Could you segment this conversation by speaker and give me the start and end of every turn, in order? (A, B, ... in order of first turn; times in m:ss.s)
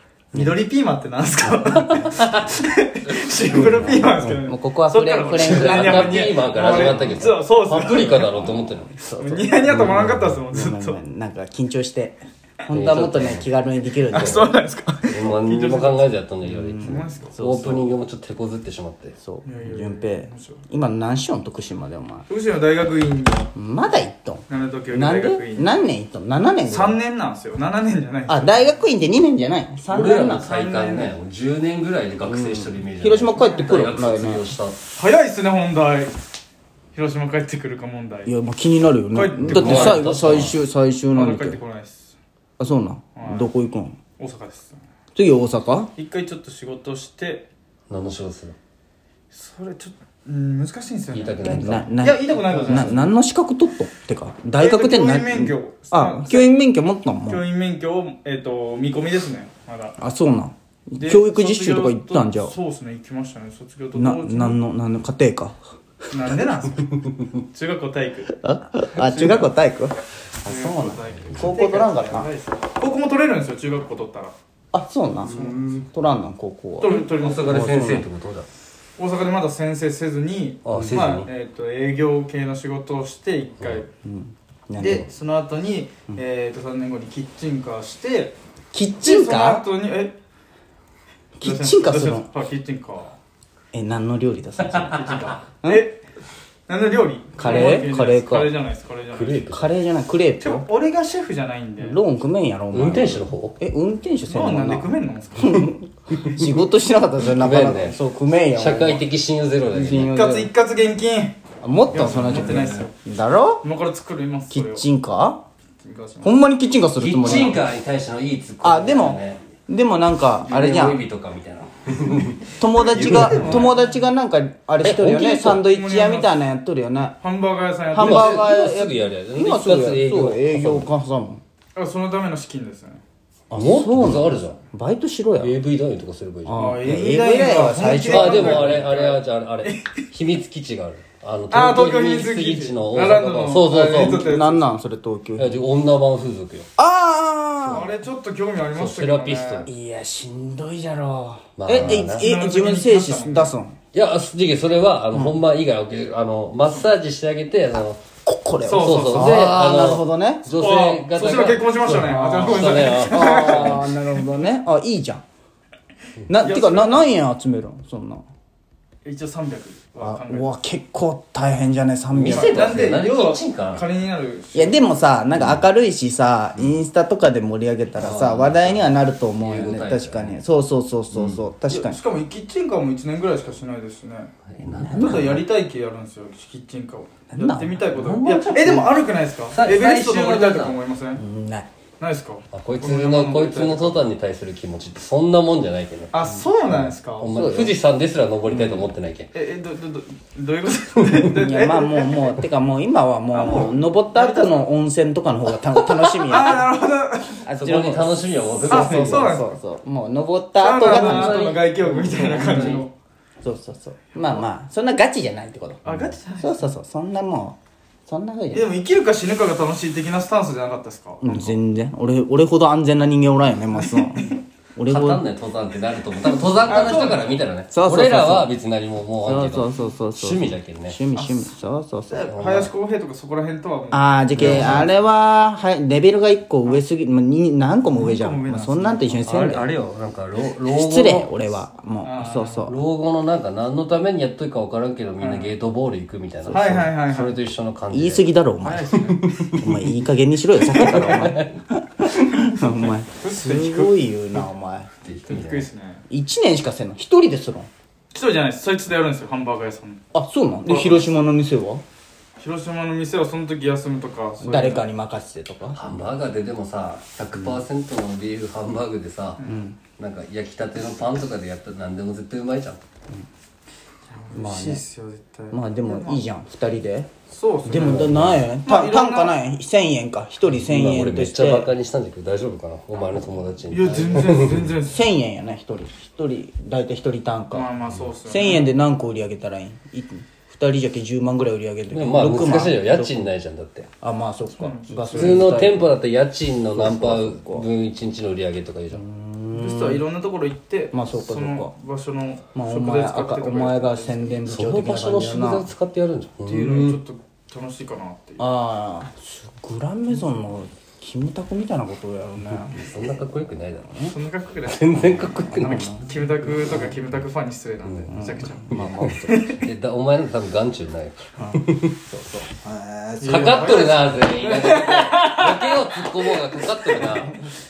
0:00.3-0:08.4 A
0:02.1-0:02.5 B
0:03.5-0:07.2 C
0:05.4-0:08.9 B
0:08.4-0:09.9 C
0:09.1-0:11.0 A
0:09.7-0:10.4 B
0:10.5-0:14.6 C
0:12.7-0:13.5 B
0:14.1-0:16.1 A
0:14.2-0:14.4 B
0:15.1-0:19.2 B
0:16.5-0:17.8 C
0:16.7-0:17.8 A
0:19.2-0:22.3 C
0:19.4-0:20.6 A
0:22.3-0:23.5 A
0:23.5-0:27.0 C
0:24.5-0:25.8 A
0:26.6-0:28.7 A
0:28.3-0:30.5 C
0:29.9-0:34.8 B
0:29.9-0:31.1 A
0:32.2-0:34.4 C
0:33.4-0:33.7 A
0:34.9-0:36.2 A
0:36.9-0:38.3 A
0:38.2-0:41.6 C
0:39.1-0:40.5 A
0:39.4-0:40.6 B
0:41.1-0:42.1 A
0:42.6-0:44.0 C
0:43.2-0:43.5 A
0:44.2-0:44.8 A
0:45.1-0:45.9 C
0:46.0-0:47.4 A
0:47.9-0:48.6 B
0:49.3-0:53.0 A
0:51.1-0:51.9 B
0:51.4-0:57.4 C
0:52.6-0:53.0 B
0:54.6-0:56.5 A
0:57.3-1:00.0 A
1:00.0-1:02.5 C
1:01.0-1:04.6 A
1:03.9-1:05.6 C
1:06.1-1:08.3 A
1:08.4-1:12.3 C
1:09.0-1:09.5 A
1:10.4-1:14.3 A
1:14.7-1:15.4 C
1:15.2-1:15.7 A
1:15.2-1:15.9 B
1:15.9-1:18.1 C
1:16.8-1:17.9 A
1:17.1-1:18.5 B
1:19.0-1:23.9 A
1:20.6-1:21.3 B
1:20.7-1:21.0 C
1:24.0-1:25.0 C
1:24.8-1:28.4 A
1:28.7-1:29.6 C
1:29.0-1:30.1 A
1:31.4-1:32.3 C
1:31.4-1:33.1 A
1:33.7-1:35.1 C
1:34.8-1:36.0 A
1:36.7-1:39.5 A
1:37.4-1:38.5 C
1:37.5-1:37.8 B
1:39.1-1:39.7 B
1:39.5-1:40.7 C
1:40.4-1:42.0 A
1:41.8-1:49.0 C
1:42.7-1:43.6 B
1:44.3-1:45.7 A
1:47.2-1:48.0 B
1:48.5-1:50.1 B
1:49.7-1:50.5 C
1:50.0-1:51.4 A
1:51.6-1:53.6 C
1:51.9-1:52.9 A
1:51.9-1:52.6 B
1:53.6-1:54.8 A
1:54.5-1:55.4 C
1:55.8-1:56.3 A
1:56.2-1:57.6 C
1:57.0-1:59.4 B
1:58.6-2:01.0 C
2:00.4-2:03.6 B
2:02.6-2:07.2 C
2:02.8-2:03.9 A
2:04.8-2:05.6 B
2:05.3-2:06.3 A
2:07.2-2:08.4 A
2:07.9-2:11.4 C
2:07.9-2:10.9 B
2:11.8-2:13.0 A
2:13.5-2:15.5 C
2:13.5-2:14.6 B
2:15.4-2:16.6 B
2:16.4-2:18.8 C
2:16.5-2:19.9 A
2:17.6-2:24.3 B
2:21.5-2:24.7 A
2:23.9-2:25.5 C
2:25.4-2:26.7 B
2:26.8-2:27.9 C
2:27.7-2:29.7 A
2:28.7-2:29.7 B
2:29.6-2:33.8 C
2:31.6-2:32.3 B
2:31.7-2:33.5 A
2:33.9-2:38.0 B
2:35.1-2:35.4 C
2:38.2-2:40.4 C
2:38.6-2:39.5 A
2:38.8-2:43.8 B
2:40.5-2:44.0 A
2:42.9-2:45.2 C
2:46.3-2:48.2 C
2:46.3-2:47.1 A
2:49.0-2:50.5 A
2:50.0-2:52.7 C
2:52.1-2:53.8 B
2:52.4-2:54.9 A
2:54.5-3:02.0 C
2:55.4-2:55.6 B
2:58.0-3:00.4 B
3:01.1-3:01.4 B
3:01.7-3:04.3 A
3:04.5-3:05.4 B
3:04.6-3:05.4 C
3:04.9-3:11.2 A
3:07.3-3:07.8 C
3:07.9-3:08.9 B
3:09.5-3:10.8 B
3:11.2-3:11.7 C
3:12.0-3:14.0 A
3:12.5-3:16.1 B
3:16.1-3:17.3 A
3:16.7-3:19.3 B
3:17.3-3:17.7 C
3:18.5-3:18.9 C
3:19.3-3:22.4 A
3:21.3-3:26.7 C
3:23.3-3:24.6 A
3:26.1-3:27.4 A
3:27.4-3:31.6 C
3:27.6-3:29.4 B
3:28.7-3:29.5 A
3:30.6-3:32.9 A
3:30.8-3:32.9 B
3:33.4-3:35.8 C
3:35.8-3:36.7 A
3:36.4-3:38.7 C
3:38.5-3:41.6 A
3:41.2-3:45.2 C
3:43.8-3:44.4 A
3:44.8-3:51.0 B
3:46.6-3:47.4 A
3:47.7-3:48.5 C
3:49.2-3:52.3 C
3:51.1-3:51.5 A
3:52.1-3:55.0 A
3:52.3-3:52.7 B
3:53.9-3:59.6 C
3:54.4-3:54.9 B
3:57.9-3:59.2 A
3:59.2-4:01.3 B
4:00.7-4:02.8 C
4:02.0-4:02.6 A
4:02.7-4:08.3 B
4:05.2-4:05.5 A
4:06.4-4:06.9 C
4:06.5-4:07.4 A
4:07.9-4:09.0 C
4:08.6-4:09.6 A
4:09.2-4:09.9 B
4:09.5-4:14.9 C
4:10.6-4:11.5 B
4:10.8-4:11.2 A
4:12.4-4:14.4 A
4:15.0-4:15.7 B
4:15.3-4:16.0 A
4:16.1-4:17.7 C
4:18.1-4:20.0 A
4:20.1-4:21.8 C
4:20.6-4:21.1 A
4:22.4-4:24.8 A
4:24.4-4:25.8 C
4:25.7-4:29.4 B
4:27.3-4:27.6 C
4:29.4-4:29.8 C
4:30.0-4:32.8 B
4:34.1-4:36.2 A
4:34.3-4:34.8 C
4:35.5-4:37.1 C
4:37.3-4:39.4 A
4:37.6-4:41.7 C
4:37.8-4:38.4 B
4:40.4-4:44.7 B
4:43.7-4:45.0 A
4:44.8-4:47.7 C
4:47.5-4:48.7 A
4:48.2-4:53.2 C
4:51.9-4:53.9 B
4:54.0-4:56.0 C
4:54.6-4:55.6 A
4:55.1-4:59.0 B
4:56.7-4:57.6 C
4:58.9-5:00.0 C
4:59.5-5:04.3 A
5:00.9-5:01.7 C
5:02.5-5:05.7 C
5:04.4-5:07.0 B
5:06.4-5:08.4 A
5:08.4-5:13.2 C
5:12.5-5:13.9 B
5:13.8-5:14.1 C
5:14.1-5:19.6 A
5:14.6-5:16.0 B
5:15.5-5:16.1 C
5:16.7-5:16.9 B
5:17.8-5:18.1 B
5:18.1-5:19.4 C
5:18.7-5:21.9 B
5:21.4-5:23.9 C
5:23.2-5:27.2 A
5:23.3-5:27.4 B